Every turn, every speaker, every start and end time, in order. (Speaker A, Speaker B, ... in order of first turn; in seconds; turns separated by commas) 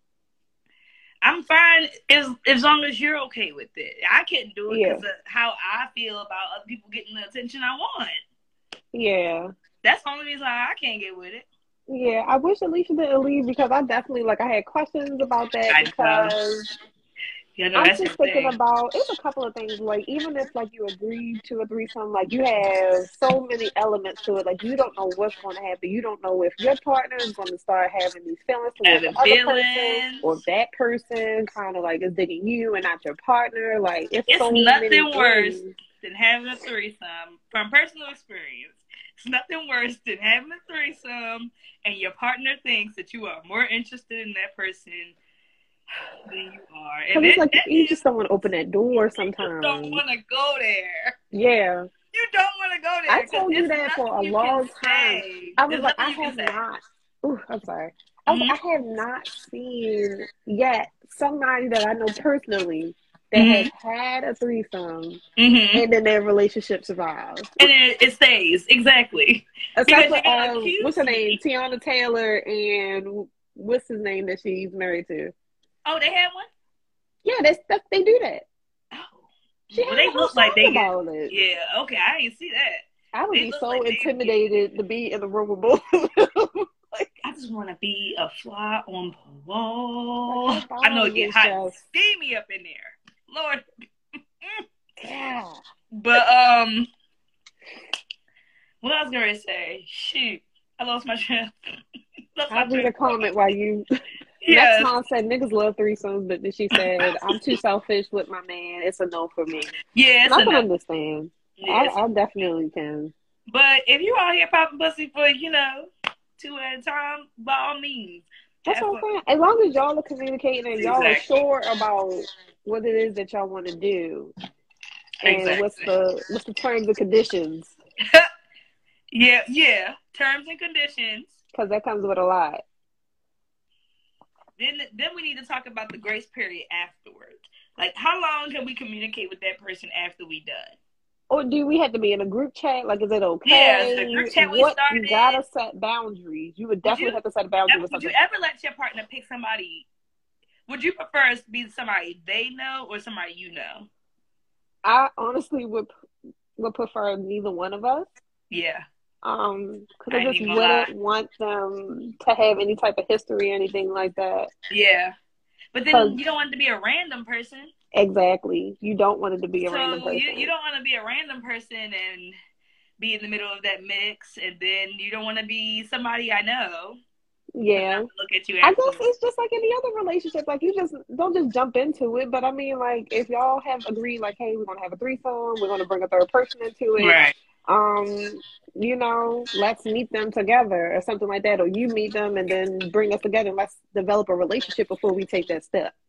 Speaker A: 1.2-8.2, Speaker B: 4.7-5.0, Speaker B: 8.9-9.5, Speaker A: 9.8-11.4, Speaker B: 11.9-16.7, Speaker A: 15.7-16.3, Speaker A: 17.6-18.6, Speaker B: 17.8-35.7, Speaker A: 28.8-30.4, Speaker A: 34.3-45.1, Speaker A: 46.2-48.0, Speaker B: 47.1-50.0, Speaker A: 49.2-51.1, Speaker B: 51.3-51.9, Speaker A: 52.1-56.6, Speaker B: 53.1-65.2, Speaker A: 58.3-58.5, Speaker A: 63.3-63.7, Speaker A: 65.4-65.8, Speaker B: 65.7-67.7, Speaker A: 67.6-71.4, Speaker B: 69.8-75.3, Speaker A: 75.8-76.5, Speaker B: 77.2-78.5, Speaker A: 78.9-84.5, Speaker B: 79.7-81.4, Speaker B: 83.1-87.1, Speaker A: 87.2-93.6, Speaker B: 90.3-91.8, Speaker B: 95.0-95.6, Speaker A: 95.9-96.9, Speaker A: 98.8-101.5, Speaker A: 102.3-103.1, Speaker B: 102.5-103.8, Speaker A: 104.4-104.9, Speaker B: 104.5-109.7, Speaker A: 106.7-107.5, Speaker A: 109.9-110.7, Speaker B: 110.3-113.1, Speaker A: 111.6-112.0, Speaker A: 113.5-119.0, Speaker B: 118.7-124.3, Speaker A: 120.8-121.3, Speaker A: 125.2-125.9, Speaker B: 125.2-127.8, Speaker A: 129.1-131.4, Speaker B: 131.5-132.6, Speaker A: 134.6-140.8, Speaker B: 141.3-148.1, Speaker A: 143.4-145.4, Speaker A: 146.8-149.8, Speaker A: 150.7-153.9, Speaker B: 154.8-155.9, Speaker B: 156.6-158.1, Speaker A: 158.5-158.8, Speaker B: 159.2-164.5, Speaker A: 160.1-160.9, Speaker A: 164.7-165.1, Speaker A: 165.7-167.7, Speaker B: 165.9-166.2, Speaker B: 167.9-170.5, Speaker A: 169.6-172.3, Speaker A: 173.0-177.0, Speaker B: 177.5-178.1, Speaker A: 177.8-179.0, Speaker B: 178.6-195.9, Speaker A: 187.0-187.3